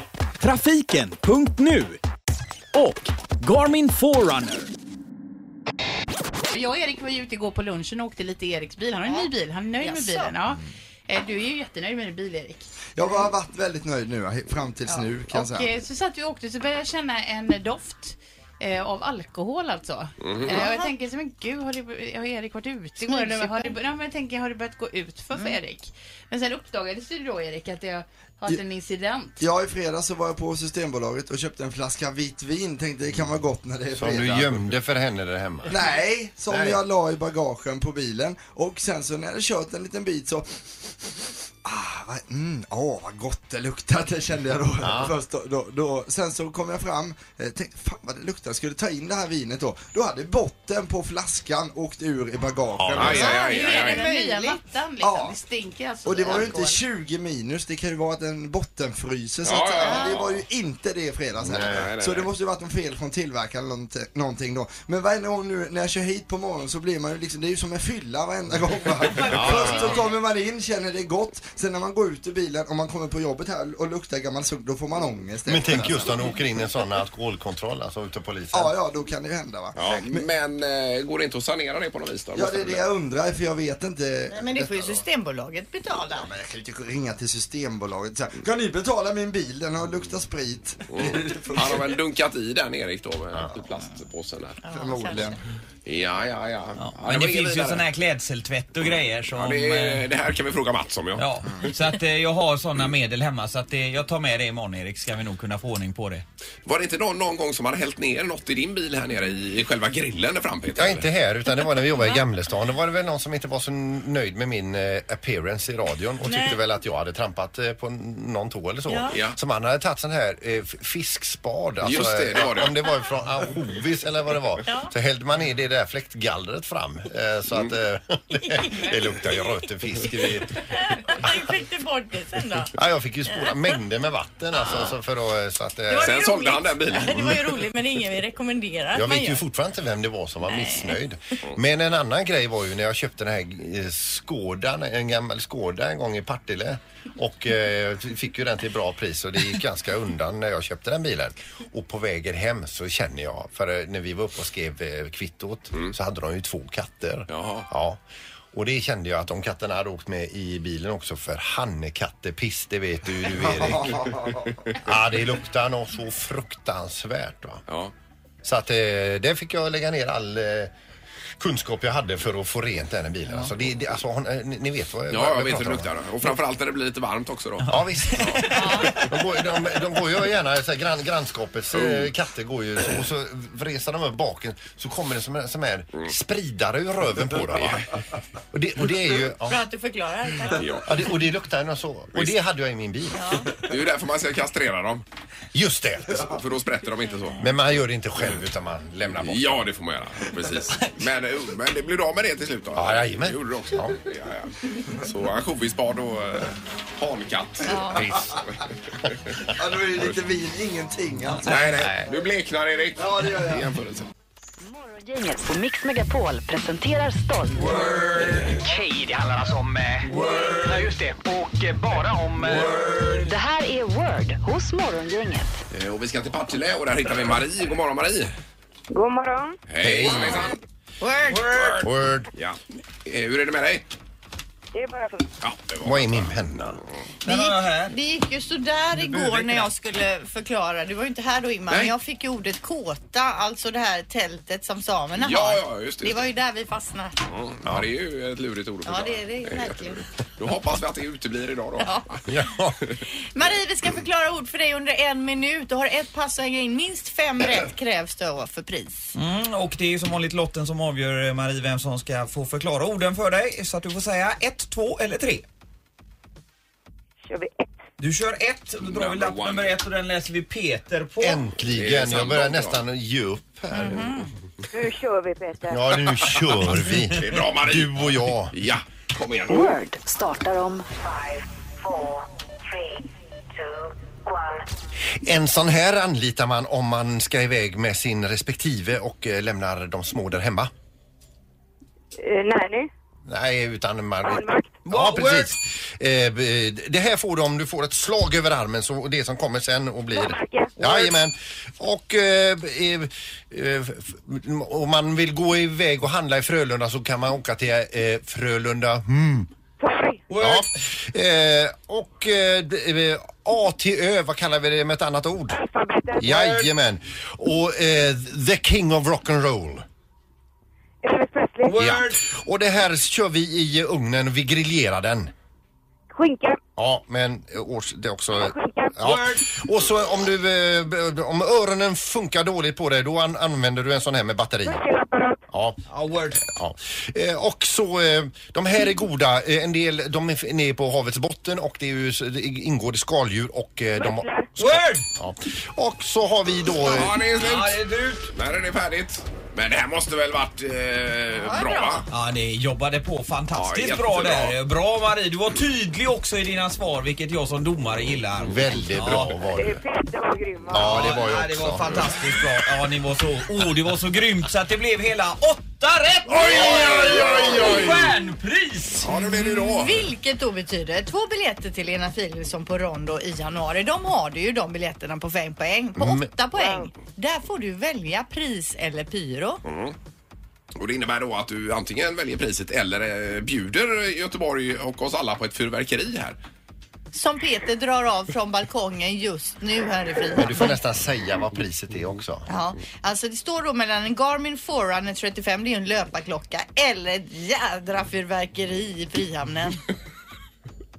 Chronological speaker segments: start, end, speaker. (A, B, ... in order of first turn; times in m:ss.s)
0:00.4-0:02.0 A
0:02.7-0:04.7 A
0:06.5-0:12.7 B
0:09.1-0:10.3 C
0:13.0-0:15.7 D
0:14.9-0:29.4 B
0:20.2-0:20.6 E
0:20.5-0:20.9 C
0:23.0-0:23.8 C
0:29.4-0:34.7 D
0:34.0-0:35.8 F
0:35.7-0:41.1 D
0:36.5-0:36.8 F
0:41.6-0:53.4 D
0:44.8-0:45.1 F
0:52.8-0:53.2 F
0:53.0-0:54.1 E
0:53.1-0:54.6 C
0:53.1-0:56.8 B
0:55.0-0:55.4 D
0:56.0-1:16.4 D
0:56.3-0:56.5 C
0:59.4-1:00.4 E
0:59.8-1:00.2 C
1:01.4-1:01.9 F
1:01.5-1:02.3 E
1:09.2-1:10.0 F
1:09.4-1:09.8 A
1:15.5-1:18.7 F
1:18.5-1:20.1 D
1:19.8-1:22.8 E
1:22.4-1:25.0 D
1:24.3-1:26.3 C
1:26.1-1:32.0 D
1:30.9-1:34.6 E
1:34.6-1:35.4 C
1:34.7-1:35.4 D
1:35.9-1:37.8 E
1:36.8-1:40.1 A
1:39.3-1:41.3 E
1:41.2-1:46.2 A
1:46.7-1:51.1 E
1:50.8-2:11.3 F
1:56.2-1:56.6 C
1:58.9-1:59.2 C
1:59.1-1:59.4 E
2:01.8-2:02.8 E
2:04.7-2:04.9 C
2:08.4-2:08.9 C
2:10.7-2:12.7 C
2:12.8-2:16.2 F
2:15.9-2:19.4 C
2:16.0-2:17.6 E
2:17.1-2:17.4 F
2:18.9-2:38.0 F
2:20.5-2:21.0 C
2:37.3-2:37.7 E
2:38.5-2:44.0 F
2:43.3-2:44.7 D
2:44.8-2:47.6 F
2:47.7-2:47.9 E
2:48.4-2:50.7 F
2:51.4-2:55.9 F
2:55.1-2:58.4 E
2:57.6-2:59.2 A
2:57.7-3:07.9 F
3:01.7-3:02.1 E
3:07.5-3:07.9 E
3:08.5-3:09.6 F
3:09.4-3:10.7 C
3:10.6-3:10.9 E
3:10.8-3:13.4 F
3:13.1-3:13.5 C
3:13.6-3:15.0 E
3:15.5-3:16.4 F
3:16.2-3:17.5 E
3:17.4-3:19.7 F
3:19.1-3:29.4 E
3:22.8-3:24.0 F
3:27.7-3:28.1 C
3:29.5-3:31.6 D
3:31.4-3:34.1 E
3:31.6-3:31.9 A
3:33.0-3:33.7 D
3:34.6-3:37.8 G
3:37.7-3:43.1 H
3:43.2-3:45.6 G
3:45.7-3:48.3 E
3:48.9-3:50.5 I
3:49.7-3:50.6 E
3:49.8-3:50.5 F
3:51.0-3:51.5 C
3:51.3-3:51.9 A
3:51.5-3:51.8 E
3:51.8-3:52.3 F
3:52.3-3:53.9 E
3:54.7-3:55.3 I
3:55.4-3:56.3 E
3:55.8-3:56.8 F
3:57.2-4:07.2 C
3:57.3-3:57.9 A
3:59.0-3:59.7 A
4:05.2-4:06.3 E
4:07.3-4:12.2 E
4:08.9-4:10.0 C
4:11.8-4:12.1 C
4:12.3-4:12.8 F
4:13.3-4:19.2 C
4:19.2-4:25.4 A
4:27.3-4:27.7 I
4:28.0-4:31.4 A
4:28.8-4:29.7 E
4:31.2-4:34.2 F
4:31.7-4:32.8 E
4:33.8-4:34.3 C
4:34.7-4:36.2 I
4:35.7-4:38.6 F
4:37.1-4:39.8 E
4:39.5-4:40.9 G
4:45.1-4:50.7 F
4:52.2-4:52.9 I
4:53.3-5:09.5 F
4:54.2-4:54.8 I
4:54.9-4:55.5 A
5:00.1-5:01.0 I
5:09.8-5:10.3 I
5:10.3-5:10.7 A
5:10.4-5:15.6 F
5:15.5-5:16.3 I
5:16.2-5:19.9 F
5:16.3-5:16.7 A
5:21.0-5:21.9 I
5:21.6-5:22.2 A
5:21.8-5:25.3 F
5:26.1-5:26.6 I
5:26.8-5:34.8 F
5:28.4-5:29.0 I
5:29.0-5:29.5 A
5:34.6-5:35.4 I
5:35.5-5:35.8 F
5:35.9-5:36.4 A
5:36.4-5:47.3 F
5:44.0-5:44.6 I
5:44.6-5:45.1 A
5:46.8-5:52.0 E
5:47.3-5:48.3 A
5:51.3-5:52.0 C
5:52.1-5:59.4 A
5:53.5-5:54.6 E
5:58.4-5:59.8 F
5:59.4-6:01.2 I
6:00.7-6:02.0 F
6:00.8-6:09.2 A
6:06.3-6:08.2 E
6:09.0-6:10.1 E
6:09.2-6:19.6 C
6:16.0-6:16.3 F
6:16.6-6:16.9 I
6:19.7-6:20.0 E
6:20.8-6:26.4 E
6:27.1-6:30.8 C
6:30.4-6:32.5 F
6:32.5-6:39.8 C